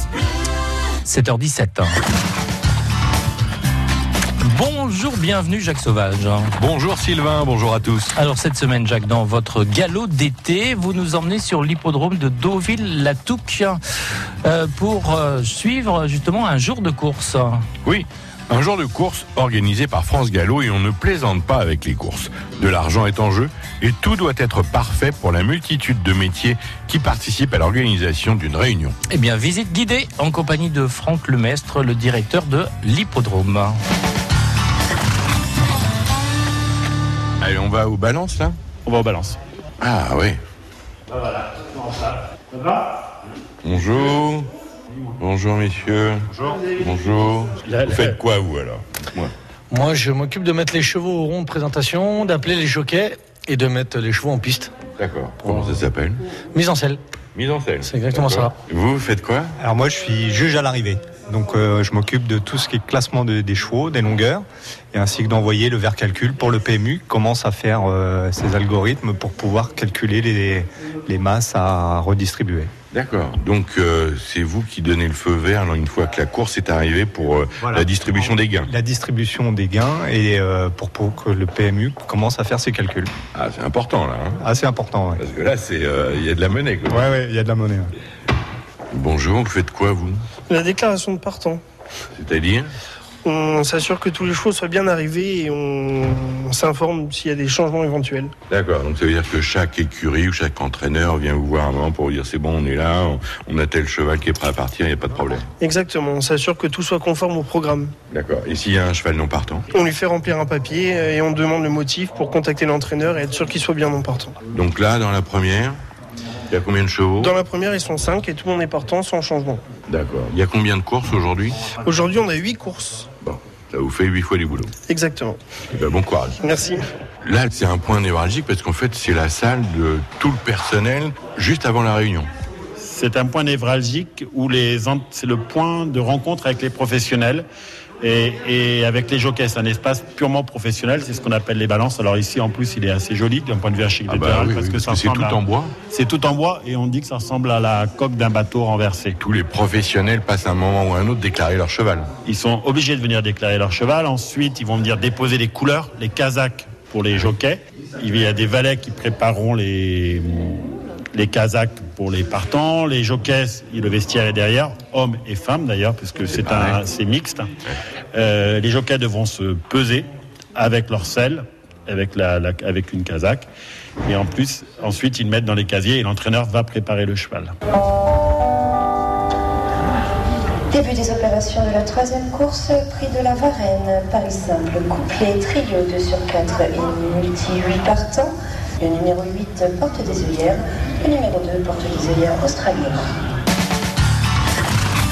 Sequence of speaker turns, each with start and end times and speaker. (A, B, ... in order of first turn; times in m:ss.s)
0:01.0-0:02.0 A
0:04.4-0:06.5 A
0:06.6-0:08.2 B
0:08.2-0:13.8 A
0:14.4-0:17.7 A
0:17.8-0:29.0 B
0:29.1-0:33.8 A
0:37.4-0:38.6 B
0:38.8-0:39.4 C
0:39.8-0:40.4 B
0:41.5-0:42.9 C
0:43.6-0:44.5 B
0:45.2-0:49.3 B
0:47.6-0:48.2 C
0:49.7-0:54.7 D
0:55.0-0:56.2 B
0:56.5-0:57.0 D
0:57.4-0:59.5 B
0:57.8-0:58.5 D
0:59.6-1:12.7 E
1:12.9-1:18.7 B
1:18.6-1:23.1 E
1:23.3-1:24.4 B
1:24.4-1:25.2 E
1:25.2-1:27.1 B
1:26.9-1:27.9 E
1:28.9-1:30.2 B
1:30.5-1:31.6 F
1:32.2-1:32.7 B
1:33.2-1:38.3 F
1:38.5-1:45.5 B
1:45.6-1:47.9 F
1:48.1-1:49.7 B
1:49.7-1:54.4 F
1:54.5-1:55.8 B
1:56.5-1:57.4 B
1:57.2-1:59.6 F
1:59.9-2:01.6 B
2:01.8-2:03.1 F
2:03.2-2:04.7 B
2:04.9-2:05.4 F
2:05.7-2:06.4 B
2:06.4-2:06.8 F
2:07.2-2:12.3 B
2:12.8-2:17.5 C
2:18.0-2:29.2 C
2:24.1-2:25.7 B
2:29.2-2:32.1 B
2:32.2-2:47.5 C
2:46.4-2:46.8 B
2:48.1-2:53.5 C
2:54.0-2:57.5 C
3:00.7-3:13.1 G